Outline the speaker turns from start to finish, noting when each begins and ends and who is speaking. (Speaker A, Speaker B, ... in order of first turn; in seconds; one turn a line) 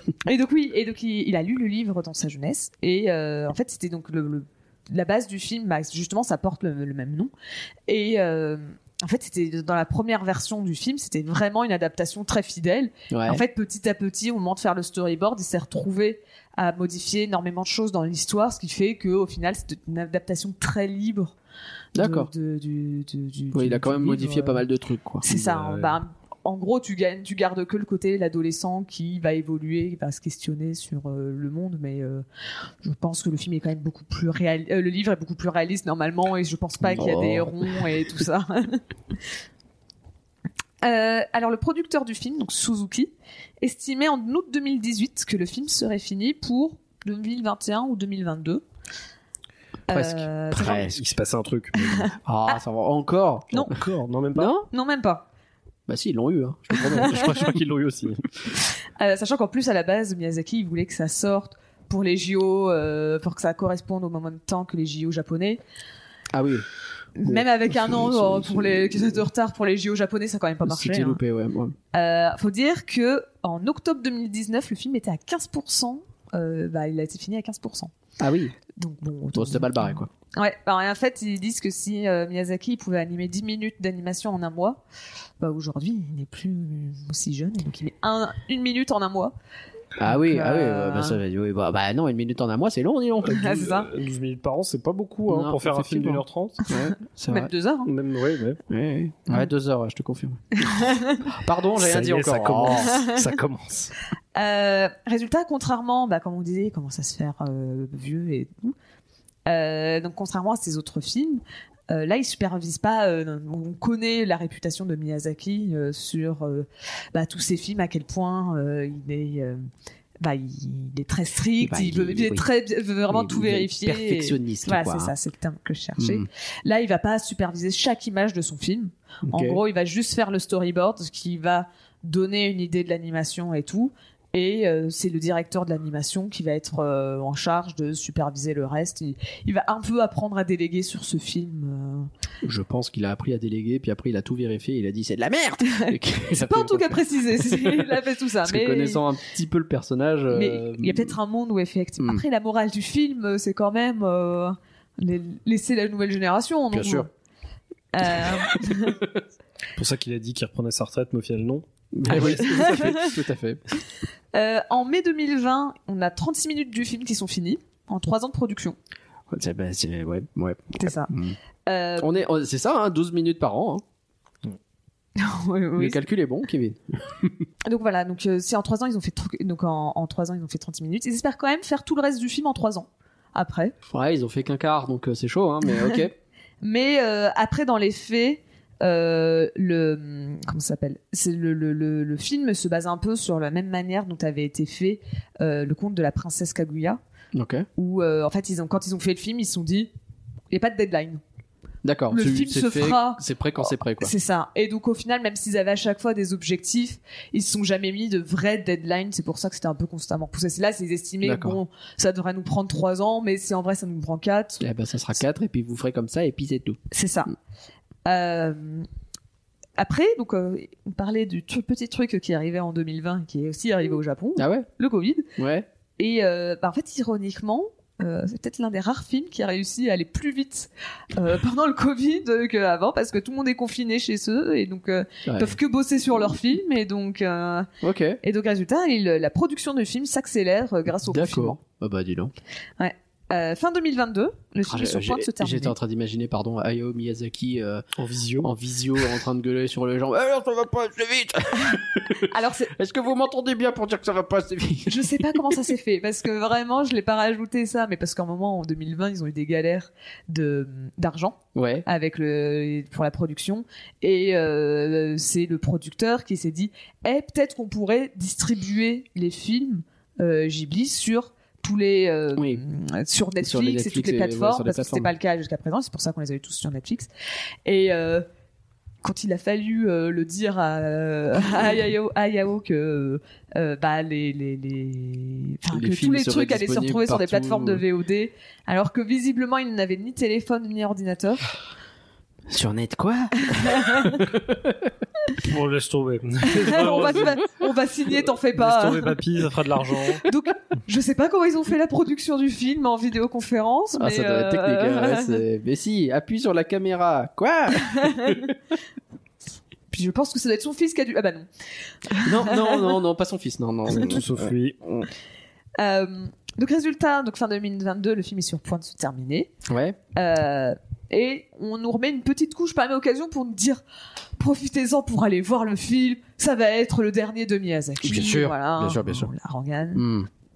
Speaker A: 0.2-7.3
Speaker A: 7.9-21.3
Speaker B: 13.1-13.4
Speaker B: 21.9-22.3
Speaker A: 21.9-24.6
Speaker B: 23.5-25.2
Speaker A: 25.2-32.2
Speaker C: 25.2-26.0
Speaker A: 32.8-38.8
Speaker B: 36.8-37.5
Speaker A: 40.8-48.6
Speaker A: 49.9-50.8
Speaker B: 49.9-51.0
Speaker C: 50.6-52.1
Speaker A: 51.9-52.5
Speaker B: 52.2-53.7
Speaker C: 53.6-54.5
Speaker B: 54.4-54.7
Speaker A: 54.7-55.2
Speaker B: 55.9-57.4
Speaker C: 56.8-58.5
Speaker A: 57.0-57.4
Speaker A: 59.0-65.6
Speaker B: 66.3-66.7
Speaker A: 67.2-71.2
Speaker B: 67.2-69.1
Speaker B: 70.6-71.8
Speaker A: 71.9-77.9
Speaker B: 78.2-78.5
Speaker A: 78.8-84.8
Speaker B: 79.3-80.1
Speaker A: 85.4-89.3
Speaker B: 90.0-93.6
Speaker A: 90.0-91.2
Speaker C: 93.2-96.7
Speaker A: 93.3-93.9
Speaker B: 95.3-97.5
Speaker A: 96.7-97.9
Speaker C: 97.8-98.6
Speaker B: 98.7-100.6
Speaker A: 100.6-101.2
Speaker B: 101.3-103.0
Speaker C: 101.8-103.9
Speaker A: 102.9-103.2
Speaker A: 104.3-108.7
Speaker A: 109.5-119.6
Speaker A: 120.2-142.1
Speaker B: 121.6-122.5
Speaker B: 123.1-125.1
Speaker B: 126.0-126.3
Speaker B: 129.3-129.6
Speaker B: 142.4-151.1
Speaker A: 145.7-149.0
Speaker A: 150.3-157.1
Speaker B: 156.7-157.1
Speaker A: 157.9-159.0
Speaker B: 158.1-158.9
Speaker C: 159.7-162.8
Speaker B: 161.9-163.6
Speaker A: 162.2-163.1
Speaker A: 164.3-168.8
Speaker B: 169.3-171.4
Speaker A: 170.8-171.1
Speaker A: 171.7-172.2
Speaker B: 172.0-173.8
Speaker A: 175.2-176.0
Speaker B: 175.8-177.3
Speaker A: 177.6-183.7
Speaker B: 183.9-186.1
Speaker A: 186.6-197.0
Speaker B: 197.3-197.7
Speaker A: 197.8-199.9
Speaker A: 200.5-201.2
Speaker B: 201.8-204.1
Speaker A: 202.1-203.2
Speaker A: 204.0-214.6
Speaker B: 211.2-211.6
Speaker B: 214.6-216.8
Speaker A: 216.9-217.3
Speaker A: 218.1-218.9
Speaker A: 219.8-225.3
Speaker B: 224.4-224.7
Speaker B: 225.4-225.7
Speaker A: 226.0-237.7
Speaker B: 235.2-235.6
Speaker B: 237.8-238.2
Speaker A: 238.2-241.6
Speaker B: 241.1-242.3
Speaker A: 242.8-245.7
Speaker B: 244.7-247.8
Speaker C: 247.9-248.5
Speaker B: 248.4-255.5
Speaker A: 251.7-252.7
Speaker A: 254.9-277.1
Speaker B: 261.5-261.8
Speaker B: 272.4-272.6
Speaker B: 273.4-275.1
Speaker A: 277.6-278.2
Speaker A: 279.0-291.5
Speaker B: 285.7-287.8
Speaker B: 292.5-294.9
Speaker A: 293.5-294.2
Speaker C: 295.4-297.4
Speaker A: 296.4-299.2
Speaker C: 298.5-300.2
Speaker A: 300.2-305.4
Speaker B: 304.0-308.5
Speaker A: 307.8-308.3
Speaker A: 309.9-311.5
Speaker A: 312.1-312.9
Speaker B: 312.1-315.1
Speaker C: 313.9-314.8
Speaker A: 315.8-319.5
Speaker B: 319.7-320.0
Speaker A: 320.1-323.8
Speaker A: 324.4-330.0
Speaker B: 328.0-329.3
Speaker B: 329.9-330.3